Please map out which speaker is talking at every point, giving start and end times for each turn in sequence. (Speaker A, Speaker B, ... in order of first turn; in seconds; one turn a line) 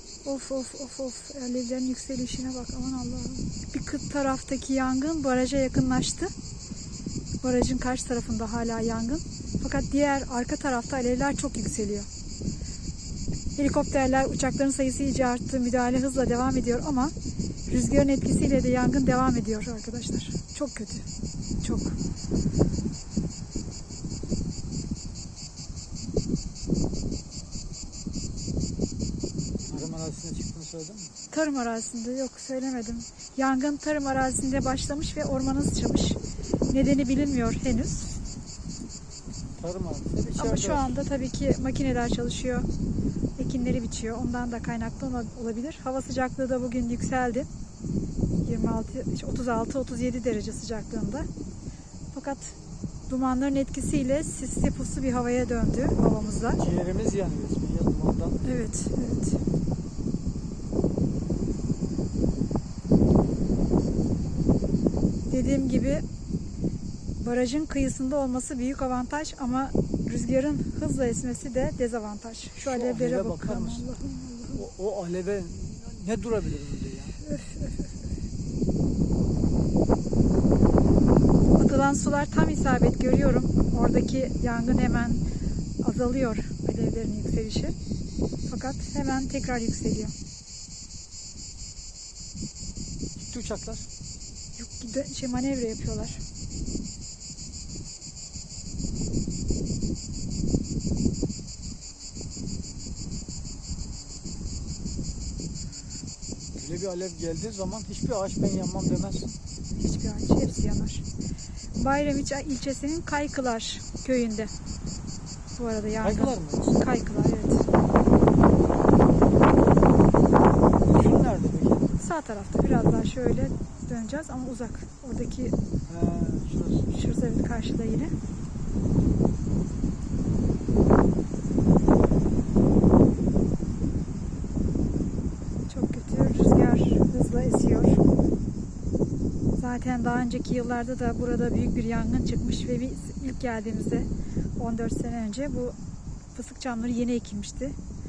Speaker A: 0.2-6.3
Speaker A: 7.4-12.1
Speaker A: 13.6-17.1
Speaker A: 17.7-21.0
Speaker A: 21.6-21.9
Speaker B: 29.7-31.1
Speaker A: 31.3-36.2
Speaker A: 36.7-38.1
Speaker B: 39.6-41.0
Speaker A: 40.4-42.7
Speaker A: 43.4-47.5
Speaker A: 48.4-51.3
Speaker A: 52.1-52.5
Speaker A: 53.1-56.6
Speaker B: 56.5-58.4
Speaker A: 58.4-59.4
Speaker A: 65.3-66.0
Speaker A: 67.2-74.6
Speaker B: 72.6-73.8
Speaker B: 74.5-77.2
Speaker A: 77.3-77.8
Speaker A: 81.5-85.2
Speaker A: 85.8-87.7
Speaker A: 88.5-90.1
Speaker B: 93.2-93.9
Speaker A: 94.5-96.2
Speaker B: 106.5-109.3
Speaker A: 109.8-111.0
Speaker A: 111.8-114.5
Speaker A: 115.5-117.7
Speaker B: 116.0-116.8
Speaker B: 120.8-122.0
Speaker A: 122.0-125.5
Speaker B: 125.9-126.9
Speaker A: 126.9-128.1
Speaker A: 135.7-138.0
Speaker A: 139.6-145.8
Speaker A: 146.3-147.8